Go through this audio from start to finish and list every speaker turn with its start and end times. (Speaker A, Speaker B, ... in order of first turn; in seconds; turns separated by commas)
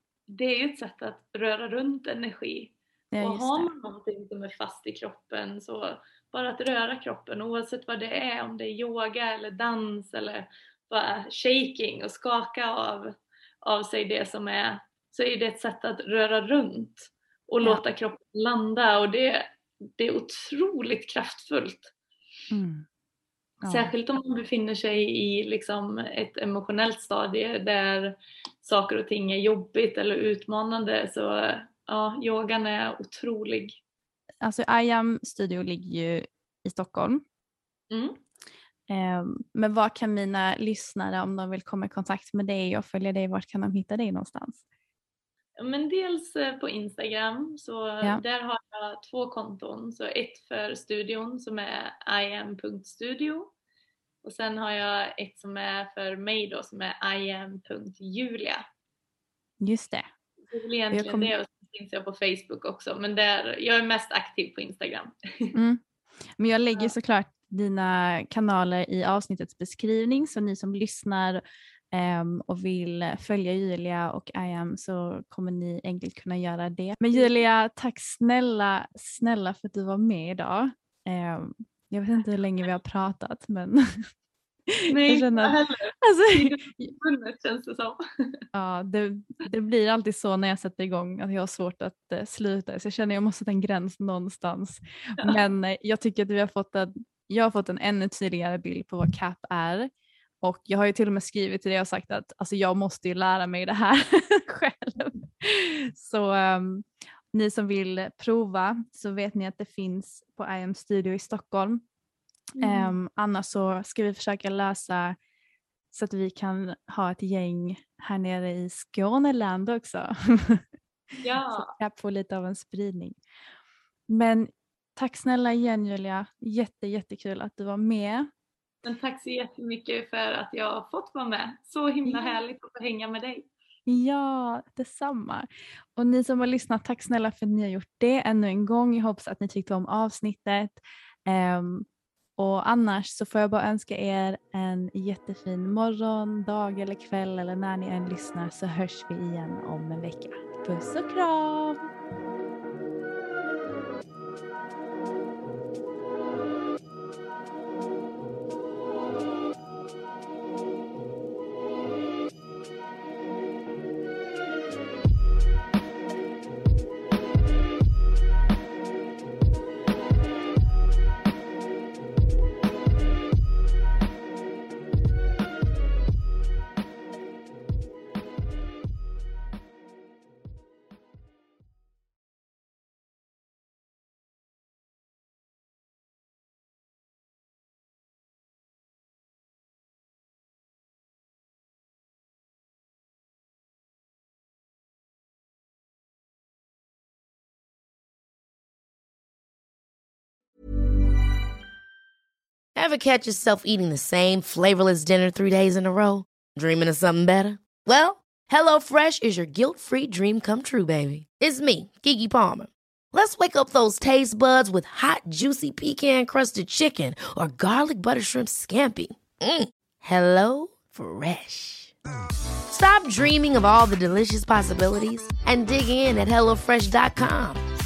Speaker A: 0.3-21.9, Speaker B: 3.1-3.7, Speaker B: 22.5-22.9, Speaker B: 23.6-23.9, Speaker A: 23.6-33.8, Speaker B: 34.4-37.2, Speaker A: 37.9-38.2, Speaker B: 38.9-44.6, Speaker A: 45.6-53.5, Speaker A: 54.2-58.6, Speaker B: 59.6-60.1, Speaker A: 60.5-65.5, Speaker B: 60.9-61.3, Speaker B: 65.5-65.8, Speaker B: 66.4-84.1, Speaker B: 84.7-86.9, Speaker A: 84.9-88.4, Speaker B: 88.5-99.9, Speaker B: 100.4-111.8, Speaker A: 112.6-113.0, Speaker B: 112.6-115.2, Speaker B: 115.9-120.7, Speaker A: 121.2-121.7, Speaker B: 121.5-123.2, Speaker B: 124.1-128.3, Speaker A: 128.8-133.5, Speaker B: 132.1-132.4, Speaker B: 133.9-151.8, Speaker C: 202.8-221.9, Speaker C: 222.7-227.6